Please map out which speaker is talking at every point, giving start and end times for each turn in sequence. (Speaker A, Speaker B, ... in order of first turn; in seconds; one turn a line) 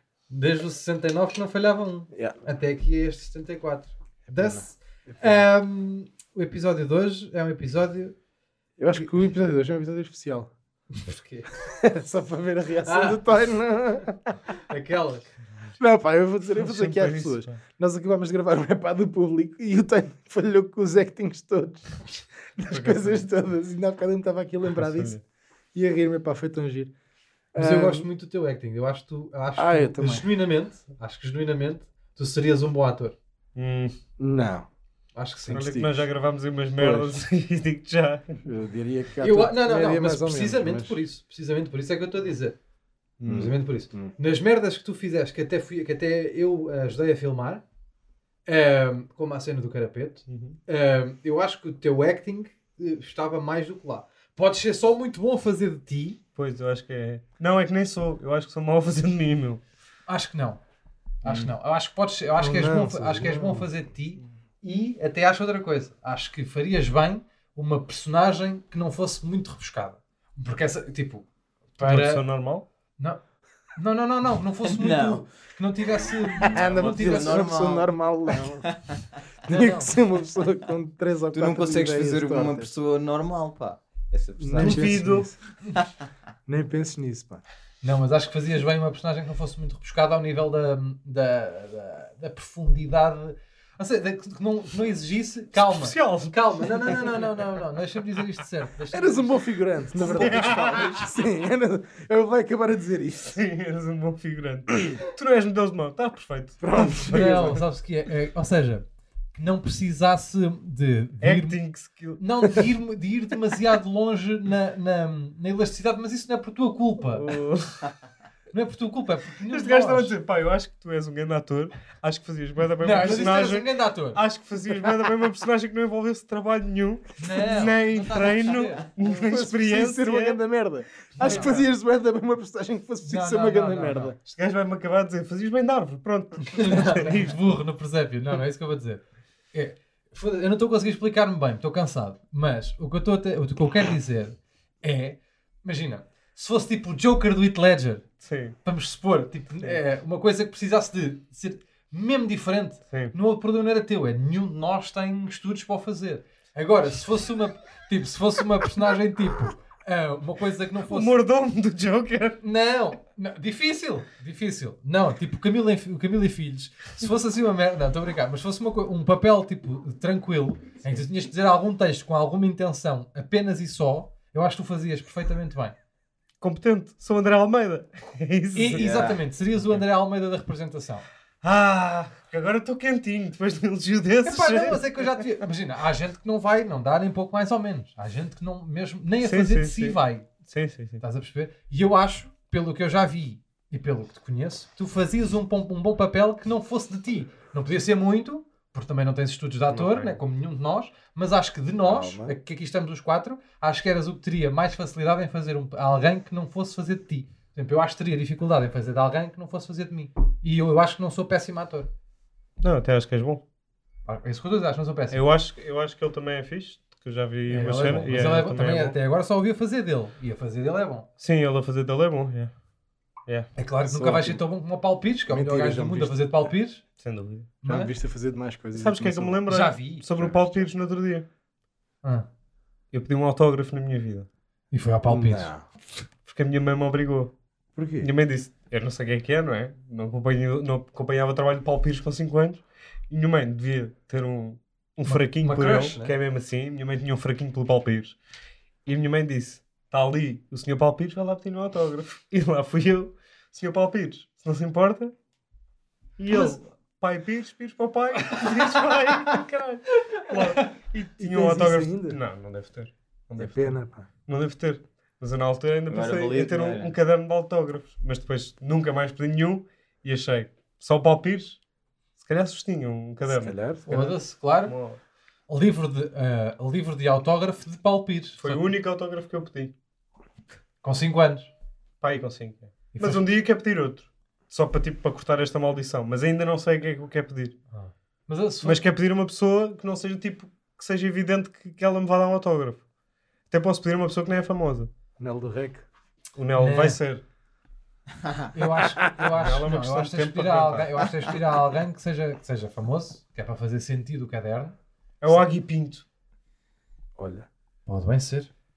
Speaker A: 0.3-8.1
Speaker B: 2.1-2.4
Speaker B: 4.3-5.4
Speaker B: 8.8-10.5
Speaker A: 10.9-11.5
Speaker B: 11.7-14.2
Speaker A: 12.8-13.2
Speaker A: 14.7-15.3
Speaker B: 15.8-25.2
Speaker C: 16.5-17.6
Speaker C: 22.7-23.2
Speaker C: 24.8-25.2
Speaker B: 25.7-26.9
Speaker B: 27.5-28.1
Speaker A: 27.5-33.2
Speaker B: 29.6-30.3
Speaker C: 33.5-33.9
Speaker B: 34.2-34.7
Speaker A: 35.1-35.7
Speaker B: 35.4-36.0
Speaker C: 35.5-38.4
Speaker B: 36.8-37.2
Speaker B: 38.4-41.0
Speaker A: 39.2-42.5
Speaker B: 43.2-44.1
Speaker A: 43.2-47.6
Speaker A: 48.5-56.2
Speaker C: 50.3-50.6
Speaker C: 56.3-59.6
Speaker A: 60.1-60.6
Speaker A: 61.2-71.2
Speaker C: 61.2-61.5
Speaker B: 62.4-63.7
Speaker A: 71.8-72.2
Speaker C: 71.8-72.7
Speaker A: 73.8-77.5
Speaker D: 74.6-75.2
Speaker B: 76.4-78.7
Speaker D: 76.6-77.9
Speaker D: 78.6-79.0
Speaker B: 79.5-82.7
Speaker A: 79.5-79.9
Speaker D: 81.3-85.0
Speaker B: 84.4-85.4
Speaker C: 84.6-85.3
Speaker D: 85.6-85.9
Speaker B: 86.5-87.4
Speaker A: 87.8-99.4
Speaker C: 95.5-97.2
Speaker B: 98.9-103.3
Speaker A: 99.9-100.9
Speaker C: 100.0-101.1
Speaker C: 103.2-107.6
Speaker B: 106.6-107.6
Speaker A: 107.1-111.6
Speaker C: 111.2-112.6
Speaker A: 112.2-117.3
Speaker C: 117.1-117.9
Speaker A: 118.5-120.1
Speaker C: 119.5-130.4
Speaker A: 122.8-124.2
Speaker A: 127.2-128.8
Speaker B: 129.0-134.2
Speaker C: 131.2-131.7
Speaker A: 131.2-131.5
Speaker A: 133.0-134.1
Speaker C: 134.2-137.4
Speaker A: 136.5-139.0
Speaker A: 139.5-148.1
Speaker C: 148.2-148.6
Speaker A: 148.6-161.2
Speaker C: 160.8-162.4
Speaker A: 162.4-175.8
Speaker C: 176.4-179.0
Speaker A: 178.5-181.1
Speaker D: 178.7-179.2
Speaker C: 181.4-185.0
Speaker A: 184.2-190.3
Speaker C: 189.2-191.0
Speaker A: 191.0-211.9
Speaker C: 199.8-200.1
Speaker B: 201.8-202.3
Speaker C: 212.6-213.4
Speaker A: 214.1-215.2
Speaker C: 215.1-219.0
Speaker A: 217.5-221.1
Speaker C: 221.2-222.5
Speaker A: 223.6-226.8
Speaker B: 223.9-224.4
Speaker B: 225.3-226.5
Speaker C: 227.0-227.5
Speaker A: 227.6-227.9
Speaker B: 227.6-229.4
Speaker C: 228.7-231.2
Speaker A: 229.5-230.0
Speaker B: 230.2-230.6
Speaker C: 232.9-234.3
Speaker A: 234.7-235.5
Speaker B: 235.0-235.7
Speaker C: 236.2-237.3
Speaker B: 237.7-238.1
Speaker C: 238.0-248.2
Speaker A: 245.1-246.1
Speaker C: 248.8-255.1
Speaker C: 256.2-271.6
Speaker A: 258.3-258.9
Speaker A: 260.1-260.7
Speaker B: 261.2-262.2
Speaker B: 263.4-264.1
Speaker D: 265.9-266.9
Speaker C: 272.2-275.0
Speaker B: 273.3-273.9
Speaker A: 273.9-274.7
Speaker A: 275.5-278.6
Speaker C: 278.4-279.7
Speaker A: 280.8-281.5
Speaker C: 282.0-287.6
Speaker A: 282.9-283.2
Speaker A: 287.7-288.8
Speaker C: 288.6-292.8
Speaker C: 293.5-294.9
Speaker B: 295.2-295.8
Speaker C: 296.3-297.2
Speaker A: 296.6-297.0
Speaker A: 298.5-304.8
Speaker C: 299.3-301.1
Speaker C: 305.2-306.0
Speaker B: 307.2-307.5
Speaker A: 307.9-308.5